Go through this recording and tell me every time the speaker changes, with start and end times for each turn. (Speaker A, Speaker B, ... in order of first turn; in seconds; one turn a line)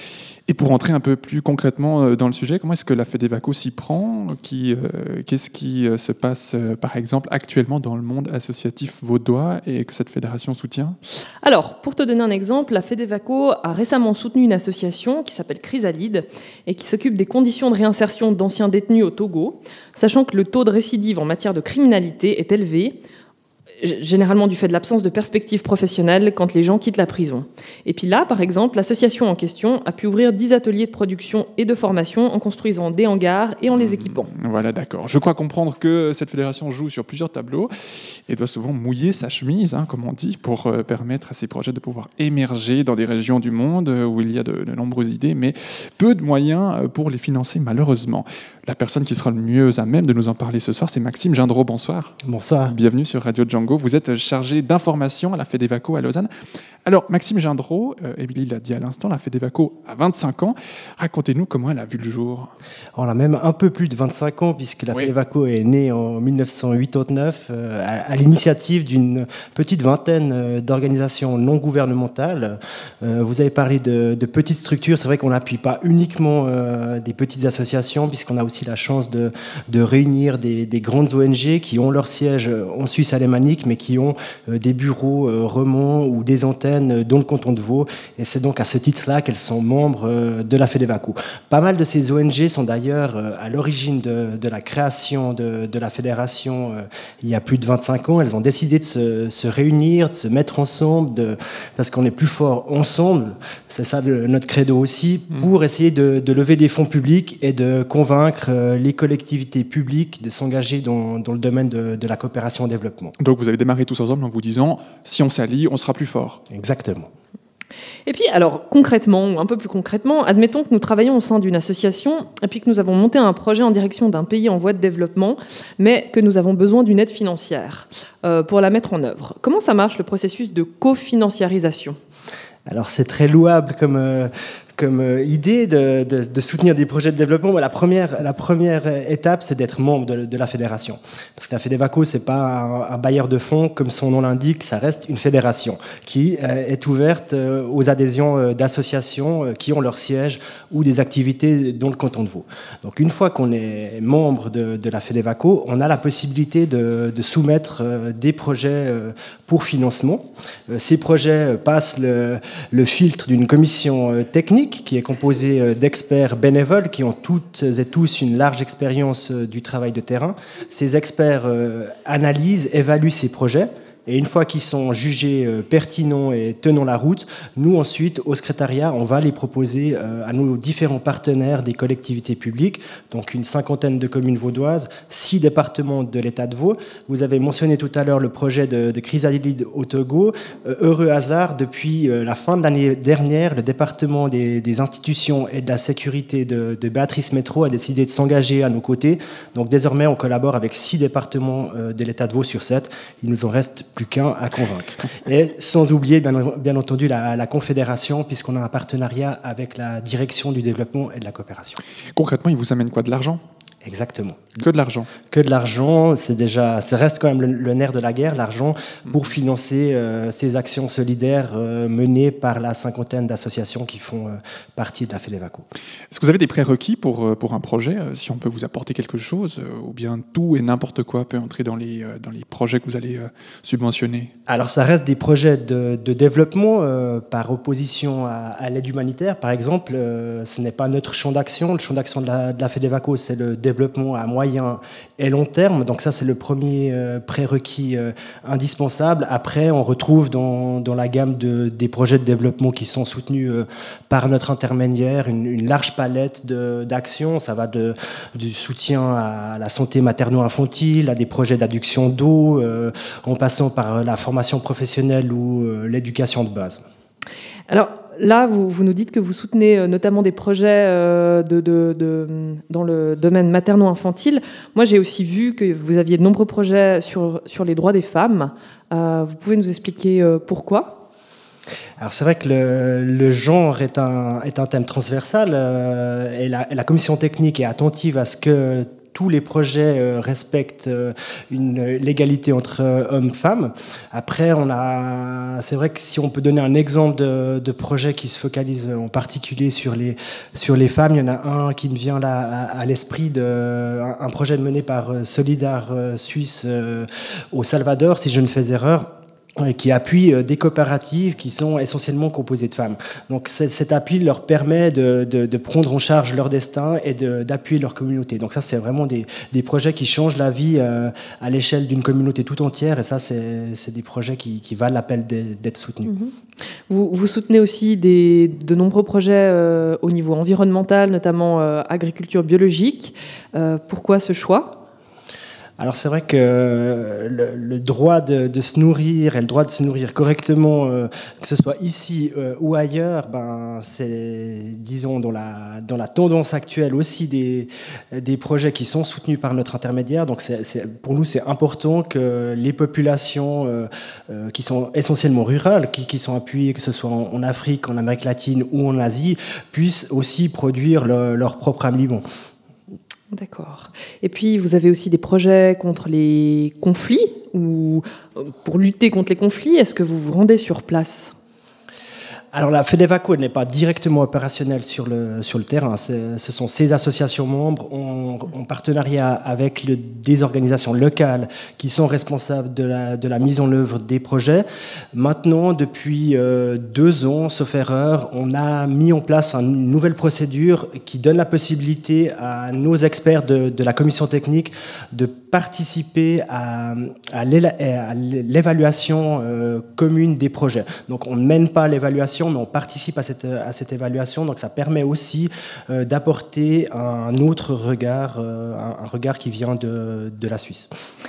Speaker A: 0.5-11.0
Speaker B: 11.4-23.0
Speaker B: 23.8-34.3
Speaker A: 33.7-37.7
Speaker A: 38.3-56.3
Speaker C: 52.2-52.7
Speaker A: 56.8-62.5
Speaker C: 63.0-113.1
Speaker A: 113.2-116.4
Speaker C: 116.5-117.1
Speaker B: 118.0-132.0
Speaker C: 132.7-211.8
Speaker A: 212.1-213.4
Speaker C: 213.8-214.4
Speaker A: 214.6-215.1
Speaker C: 215.3-225.7
Speaker A: 226.1-234.3
Speaker C: 234.5-266.8
Speaker B: 267.7-281.0
Speaker C: 282.0-326.1
Speaker B: 326.1-326.3
Speaker B: 326.9-334.8
Speaker C: 335.8-362.2
Speaker B: 363.3-371.3
Speaker C: 372.5-410.9